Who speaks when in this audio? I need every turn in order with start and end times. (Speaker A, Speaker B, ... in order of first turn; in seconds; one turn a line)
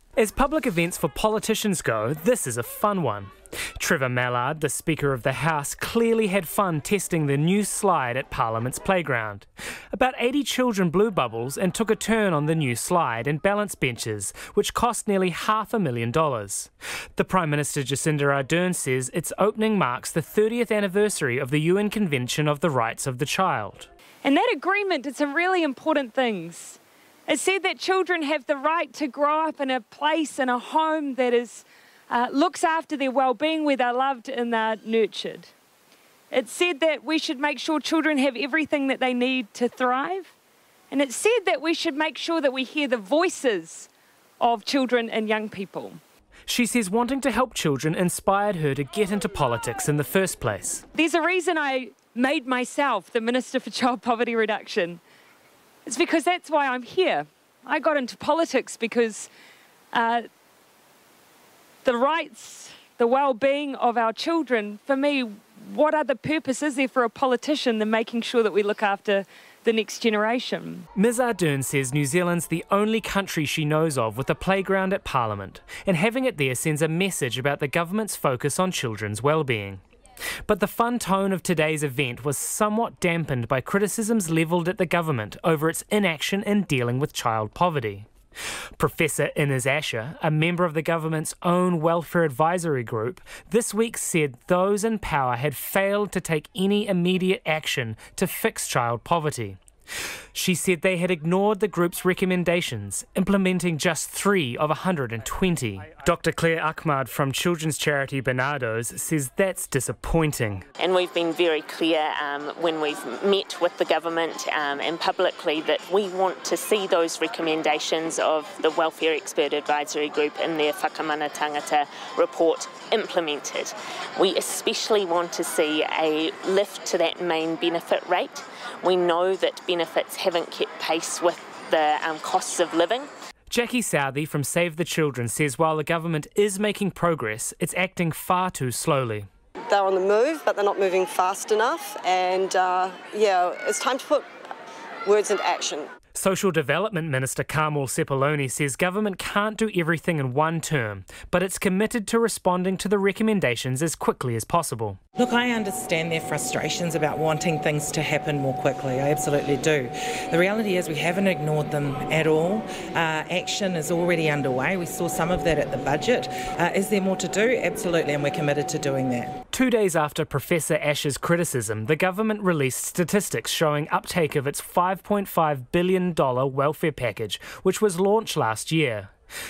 Speaker A: 0.2-23.9
Speaker B: 24.2-35.5
Speaker B: 36.3-40.3
Speaker B: 40.9-43.9
Speaker B: 44.4-46.0
Speaker A: 46.5-50.8
Speaker B: 50.9-55.0
Speaker B: 55.9-59.3
Speaker B: 59.9-60.3
Speaker B: 61.8-70.8
Speaker A: 71.0-79.8
Speaker A: 80.5-88.1
Speaker A: 88.8-99.6
Speaker A: 100.3-110.7
Speaker C: 110.8-133.1
Speaker A: 133.5-139.3
Speaker D: 139.7-144.3
Speaker D: 145.1-145.9
Speaker A: 146.2-155.0
Speaker E: 155.2-169.3
Speaker A: 169.5-179.1